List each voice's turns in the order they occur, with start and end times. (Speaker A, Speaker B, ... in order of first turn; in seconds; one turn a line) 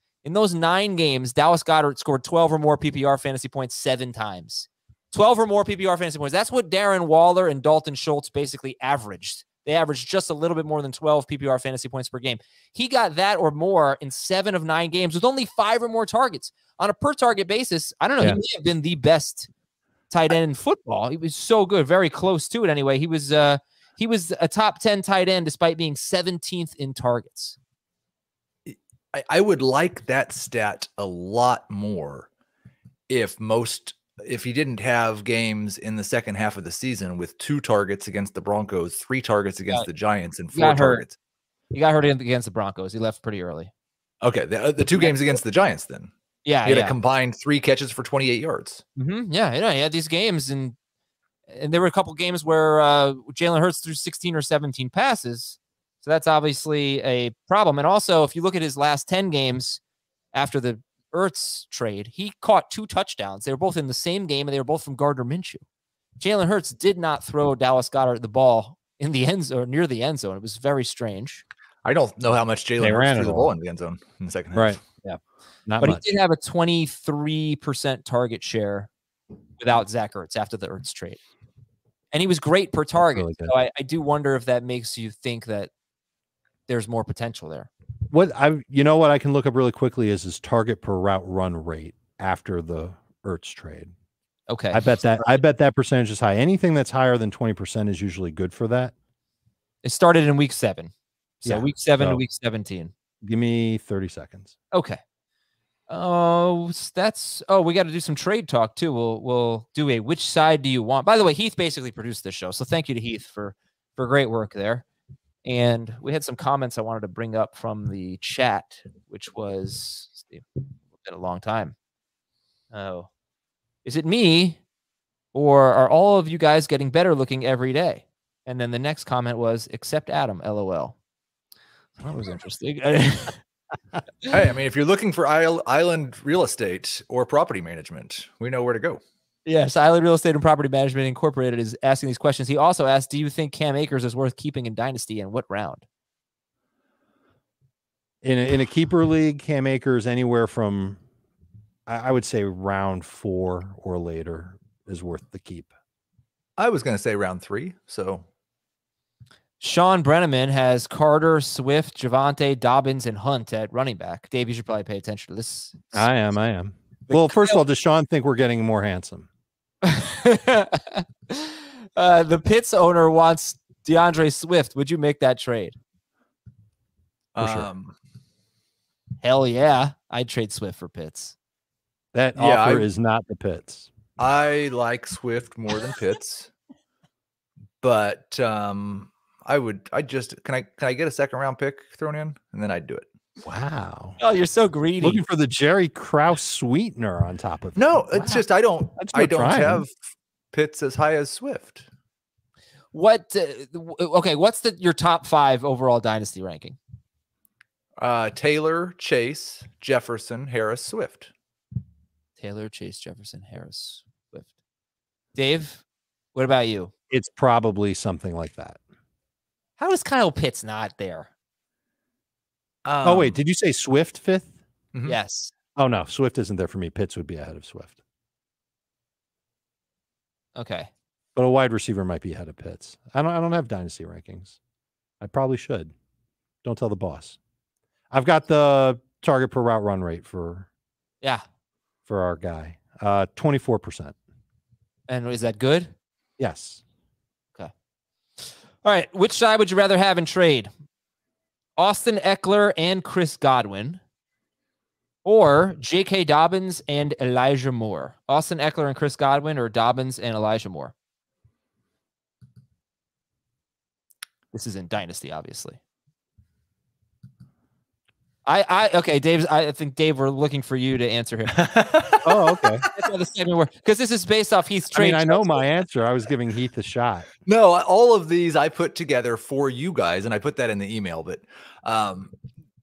Speaker A: 0.2-19.5
Speaker A: 20.1-27.6
Speaker B: 28.6-32.3
Speaker B: 33.1-41.1
Speaker A: 40.5-41.0
Speaker A: 41.7-43.7
Speaker B: 44.2-46.1
Speaker A: 46.4-46.9
Speaker B: 46.6-48.8
Speaker A: 49.0-50.8
Speaker A: 51.5-59.8
Speaker A: 60.3-65.6
Speaker A: 66.2-71.4
Speaker B: 71.8-74.8
Speaker C: 72.8-73.5
Speaker C: 74.5-76.0
Speaker A: 75.8-78.9
Speaker A: 79.6-81.2
Speaker A: 82.1-85.7
Speaker C: 83.0-83.5
Speaker A: 86.7-87.7
Speaker C: 88.1-93.9
Speaker A: 94.5-95.3
Speaker C: 94.7-98.9
Speaker A: 99.8-100.9
Speaker C: 101.4-102.2
Speaker A: 101.4-102.9
Speaker C: 103.2-104.5
Speaker A: 104.7-105.0
Speaker A: 105.9-114.8
Speaker A: 115.4-121.7
Speaker A: 122.7-123.1
Speaker A: 123.8-124.6
Speaker A: 125.3-130.9
Speaker A: 132.0-133.4
Speaker B: 134.3-139.0
Speaker A: 139.4-145.8
Speaker C: 148.2-151.0
Speaker C: 151.9-155.7
Speaker B: 156.6-158.2
Speaker A: 159.6-166.1
Speaker C: 165.9-169.3
Speaker A: 167.1-167.6
Speaker A: 169.8-175.8
Speaker B: 177.3-177.9
Speaker C: 177.4-177.7
Speaker A: 179.2-181.3
Speaker C: 182.1-183.9
Speaker B: 182.3-182.9
Speaker B: 184.2-186.5
Speaker B: 187.8-193.1
Speaker C: 193.4-194.2
Speaker A: 194.2-195.2
Speaker C: 195.0-198.4
Speaker B: 197.8-199.9
Speaker C: 199.0-199.8
Speaker B: 200.5-201.9
Speaker A: 202.9-206.8
Speaker B: 208.0-211.3
Speaker A: 212.4-214.5
Speaker A: 215.3-215.8
Speaker A: 216.3-216.9
Speaker C: 217.1-218.8
Speaker A: 219.8-221.3
Speaker B: 222.8-223.4
Speaker C: 223.0-224.6
Speaker A: 225.1-225.5
Speaker C: 225.8-228.0
Speaker A: 230.6-230.9
Speaker C: 231.3-234.6
Speaker C: 235.2-235.9
Speaker C: 236.6-237.4
Speaker C: 238.1-240.7
Speaker C: 242.1-244.2
Speaker A: 245.1-245.9
Speaker C: 246.4-246.8
Speaker A: 248.4-250.7
Speaker A: 251.8-254.0
Speaker A: 255.2-260.9
Speaker A: 264.5-265.8
Speaker A: 268.4-271.6
Speaker B: 271.5-272.9
Speaker C: 272.2-272.9
Speaker A: 272.9-275.6
Speaker C: 274.9-277.3
Speaker B: 277.4-282.3